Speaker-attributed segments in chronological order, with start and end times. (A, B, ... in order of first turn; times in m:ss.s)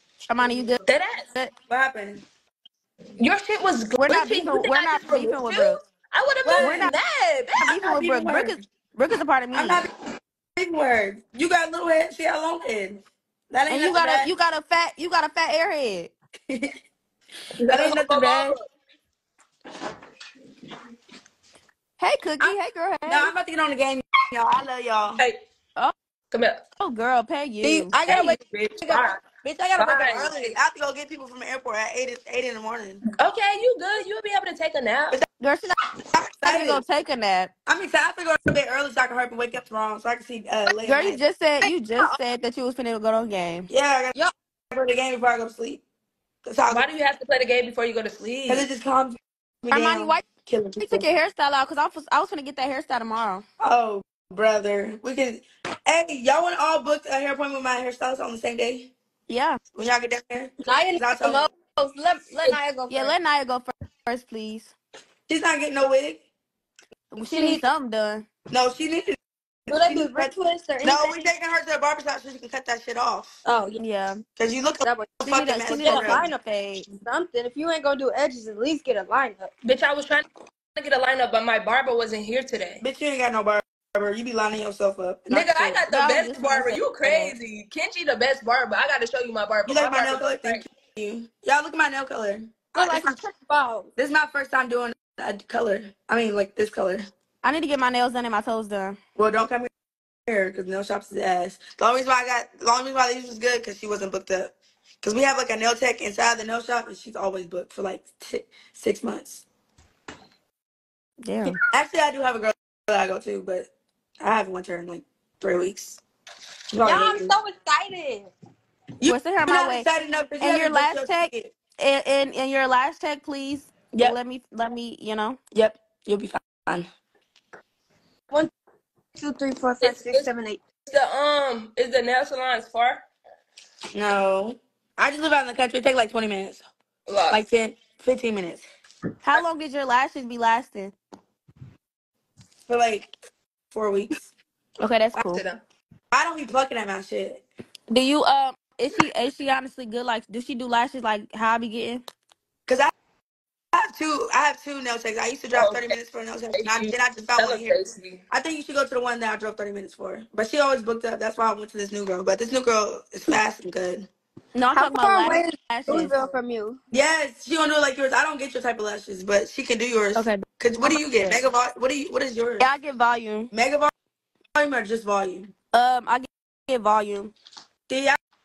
0:00.3-0:00.8 A
0:00.9-0:01.3 B
0:01.7-0:02.2 C
0:03.2-0:07.6 B
0:04.0-0:05.8 A
0:06.4-0:06.9 C
0:06.6-0:07.0 A
0:07.5-0:09.8 A
0:07.6-0:08.6 C
0:09.5-0:09.9 C
0:10.6-0:14.3 C
0:13.7-0:16.1 A
0:17.6-0:18.7 B
0:17.7-0:18.6 C
0:22.0-0:23.3 A
0:23.1-0:25.2 C
0:26.3-0:26.6 B
0:26.8-0:28.0 A
0:27.6-0:33.0 C
0:28.0-0:29.2 B
0:29.8-0:30.3 B
0:33.2-0:35.2 B
0:35.4-0:35.7 A
0:36.1-0:36.8 C
0:36.4-0:37.5 A
0:37.7-0:41.2 C
0:40.8-0:43.7 A
0:41.6-0:42.1 D
0:43.7-0:44.2 C
0:44.7-0:45.8 C
0:46.4-0:46.9 C
0:46.7-0:48.7 B
0:48.5-0:51.1 C
0:49.7-0:50.2 A
0:50.8-0:53.4 A
0:53.6-0:58.9 C
0:59.3-0:59.6 A
0:59.7-1:01.5 C
1:00.6-1:03.2 D
1:02.9-1:04.7 A
1:05.3-1:06.2 C
1:07.1-1:08.3 A
1:07.2-1:07.6 D
1:08.5-1:13.4 C
1:09.7-1:11.1 D
1:13.4-1:13.8 D
1:13.8-1:14.2 A
1:14.4-1:16.2 C
1:14.8-1:19.5 D
1:15.3-1:16.9 A
1:19.6-1:22.8 B
1:22.8-1:25.8 C
1:25.3-1:30.6 B
1:25.9-1:27.4 A
1:29.6-1:33.2 C
1:32.8-1:33.9 D
1:34.0-1:37.1 C
1:37.4-1:39.0 A
1:39.2-1:39.7 C
1:40.3-1:49.4 C
1:51.2-1:51.6 A
1:51.7-1:53.7 C
1:54.2-1:56.0 C
1:56.7-1:57.3 C
1:56.8-1:58.3 D
1:59.0-2:01.5 C
1:59.0-1:59.9 A
2:00.4-2:05.4 A
2:05.5-2:06.9 C
2:09.2-2:10.6 D
2:09.8-2:10.3 B
2:10.9-2:13.0 B
2:13.9-2:16.6 C
2:17.1-2:17.5 B
2:17.3-2:18.6 C
2:19.2-2:21.0 A
2:22.7-2:23.1 C
2:23.7-2:24.3 C
2:24.8-2:25.4 A
2:25.1-2:25.6 B
2:26.1-2:27.4 C
2:27.9-2:32.0 A
2:32.7-2:32.9 C
2:33.7-2:37.8 C
2:35.5-2:35.9 B
2:36.5-2:38.2 B
2:38.3-2:44.1 C
2:44.6-2:46.1 A
2:44.8-2:46.8 D
2:46.9-2:52.7 C
2:50.2-2:51.4 A
2:52.6-2:53.5 A
2:53.5-2:53.9 C
2:54.5-2:55.5 C
2:55.7-2:57.3 A
2:57.9-2:58.2 C